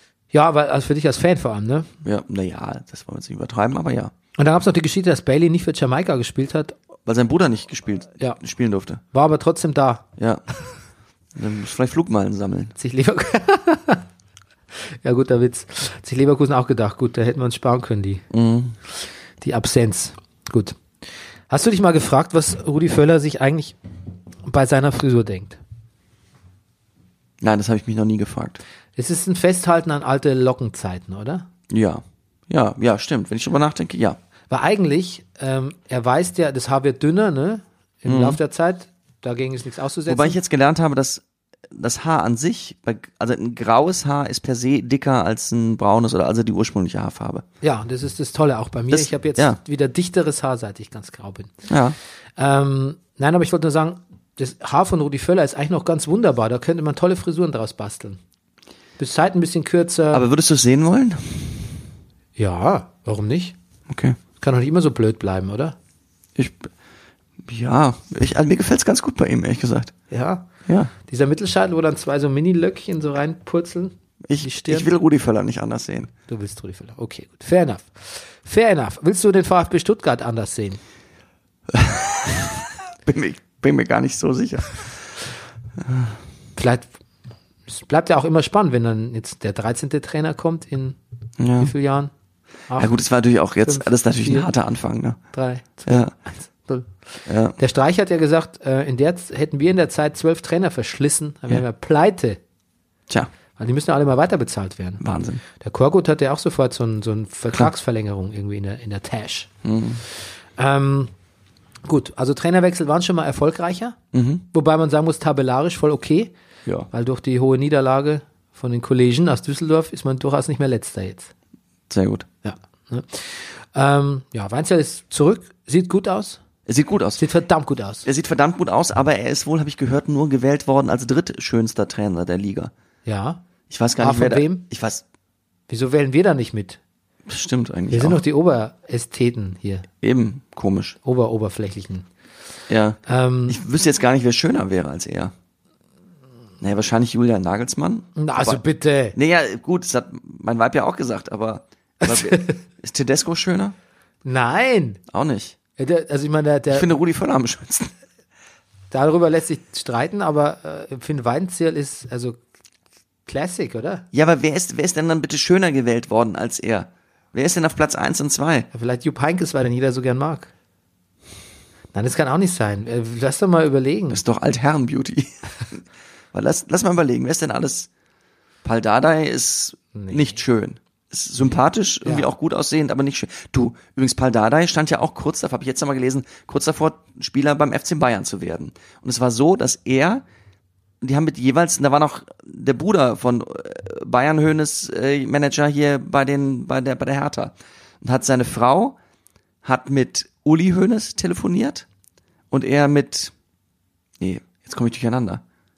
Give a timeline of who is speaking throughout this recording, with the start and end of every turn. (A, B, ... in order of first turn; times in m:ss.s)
0:00.3-0:01.9 A
0:02.0-0:04.1 B
0:04.4-0:06.8 A
0:07.1-0:09.0 B
0:09.1-0:10.1 A
0:10.2-0:10.4 B
0:11.4-0:12.7 B
0:12.8-0:14.0 A
0:14.8-0:18.2 A
0:18.3-0:18.8 B
0:19.4-0:20.8 A
0:21.5-0:23.8 A
0:24.4-0:25.6 A
0:27.4-0:28.6 B
0:29.0-0:31.5 A
0:31.7-0:34.2 B
0:34.5-0:40.4 A
0:38.1-0:38.4 B
0:40.1-0:47.4 B
0:47.6-0:51.6 A
0:48.9-0:49.6 B
0:51.7-0:52.0 B
0:52.4-0:58.2 A
0:59.0-1:00.3 A
1:00.1-1:01.6 B
1:02.4-1:03.6 A
1:03.9-1:04.2 B
1:04.4-1:05.8 A
1:06.4-1:06.7 B
1:07.4-1:09.9 B
1:10.1-1:10.5 A
1:11.0-1:14.9 A
1:14.2-1:16.1 B
1:16.3-1:20.8 A
1:21.7-1:22.6 B
1:23.1-1:25.0 B
1:25.9-1:26.1 B
1:26.6-1:26.9 A
1:27.7-1:31.0 A
1:31.4-1:31.7 B
1:31.6-1:32.1 A
1:32.7-1:32.9 A
1:32.8-1:35.2 B
1:33.6-1:34.5 A
1:35.3-1:37.0 A
1:35.9-1:36.1 B
1:37.3-1:37.6 B
1:37.6-1:42.4 A
1:43.6-1:45.0 A
1:45.0-1:45.4 B
1:45.5-1:49.5 A
1:49.6-1:50.0 B
1:50.2-1:51.1 A
1:51.8-1:54.0 A
1:54.1-1:54.4 B
1:54.5-1:56.3 A
1:56.9-2:01.3 A
2:01.9-2:02.3 B
2:02.4-2:06.4 A
2:06.7-2:07.2 B
2:07.2-2:08.1 A
2:08.0-2:12.7 B
2:13.1-2:13.4 A
2:13.7-2:15.0 B
2:14.0-2:14.6 A
2:15.7-2:16.8 A
2:17.3-2:18.2 B
2:17.9-2:19.9 A
2:20.0-2:21.0 B
2:21.0-2:22.1 A
2:22.7-2:25.3 B
2:23.0-2:23.6 A
2:26.6-2:28.6 B
2:28.2-2:29.2 A
2:29.1-2:33.8 B
2:32.0-2:32.6 A
2:34.2-2:35.0 A
2:35.1-2:35.6 B
2:35.8-2:36.9 A
2:36.7-2:37.9 B
2:38.9-2:42.4 A
2:43.3-2:44.1 A
2:44.1-2:48.7 B
2:48.7-2:50.5 A
2:51.9-2:54.2 A
2:54.1-2:57.9 B
2:58.6-3:10.2 B
2:59.9-3:00.4 A
3:11.0-3:19.0 B
3:19.6-3:21.9 B
3:22.5-3:23.3 B
3:24.2-3:25.4 B